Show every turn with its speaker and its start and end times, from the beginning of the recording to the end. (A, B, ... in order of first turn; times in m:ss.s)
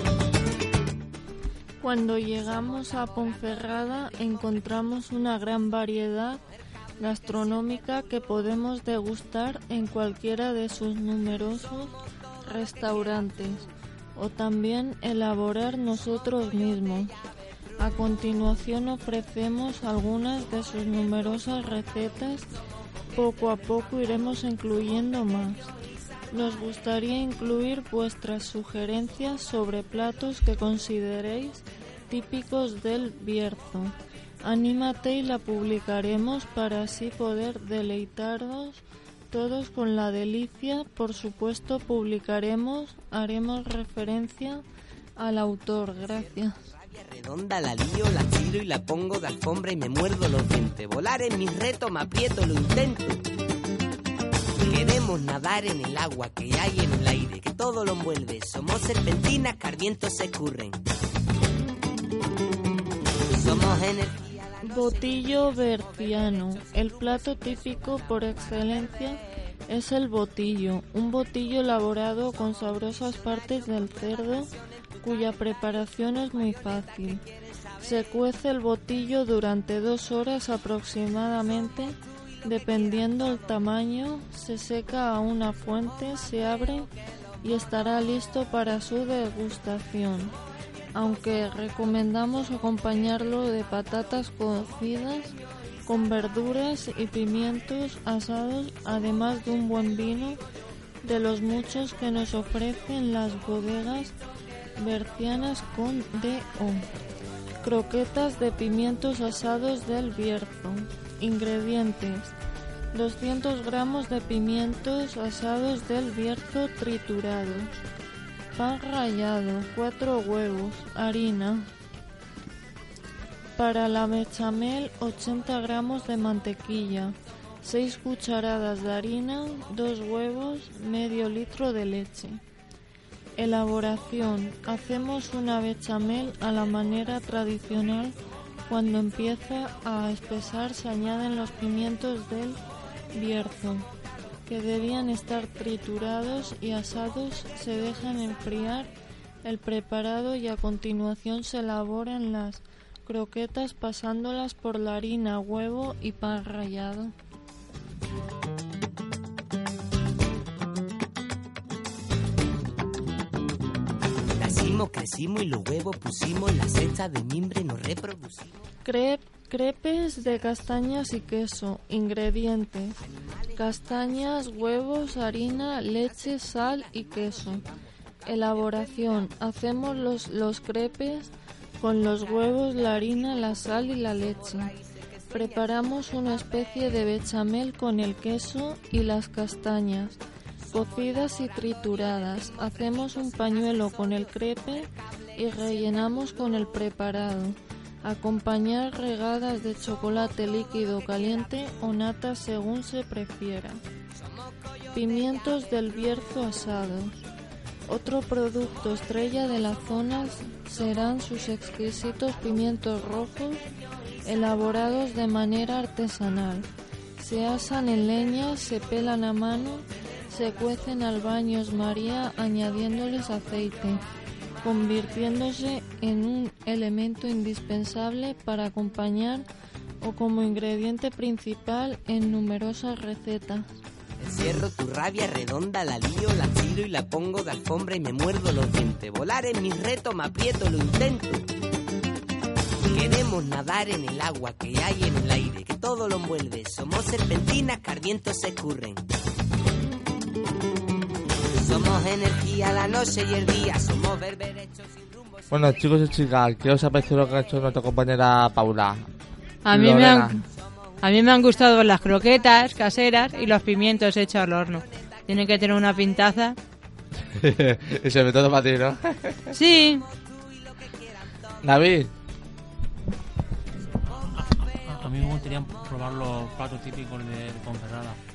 0:01.8-0:06.4 A
0:07.0-0:11.9 A
0:12.4-0:17.1 A
0:17.8-0:22.5 A
0:23.1-0:25.7 A
0:26.3-0:44.6 A
0:45.2-0:46.6 A
0:46.6-0:53.2 B
0:54.6-1:00.8 B
1:03.3-1:04.4 B
1:04.6-1:17.2 A
1:17.8-1:26.9 A
1:27.4-1:30.3 A
1:30.9-1:40.4 A
1:41.0-1:44.1 A
1:44.8-1:46.9 A
1:47.6-1:52.3 A
1:52.9-1:57.7 A
1:58.5-2:01.7 A
2:03.6-2:12.4 A
2:13.4-2:18.2 A
2:18.7-2:22.6 A
2:23.1-2:23.9 A
2:24.4-2:28.9 A
2:29.4-2:37.1 A
2:44.4-2:48.6 B
2:48.8-2:53.0 A
2:53.6-2:57.6 A
2:58.2-3:04.7 A
3:05.3-3:10.2 A
3:10.7-3:23.8 A
3:24.9-3:27.2 A
3:27.9-3:33.7 A
3:34.2-3:36.7 A
3:37.2-3:44.0 A
3:44.6-3:49.5 A
3:50.0-3:53.7 A
3:54.2-4:01.4 B
4:02.9-4:09.0 B
4:11.6-4:15.3 B
4:15.5-4:19.1 C
4:19.6-4:20.4 D
4:19.7-4:20.4 C
4:21.0-4:26.6 D
4:27.4-4:29.4 C
4:29.5-4:30.0 D
4:31.6-4:32.1 C
4:34.1-4:38.2 E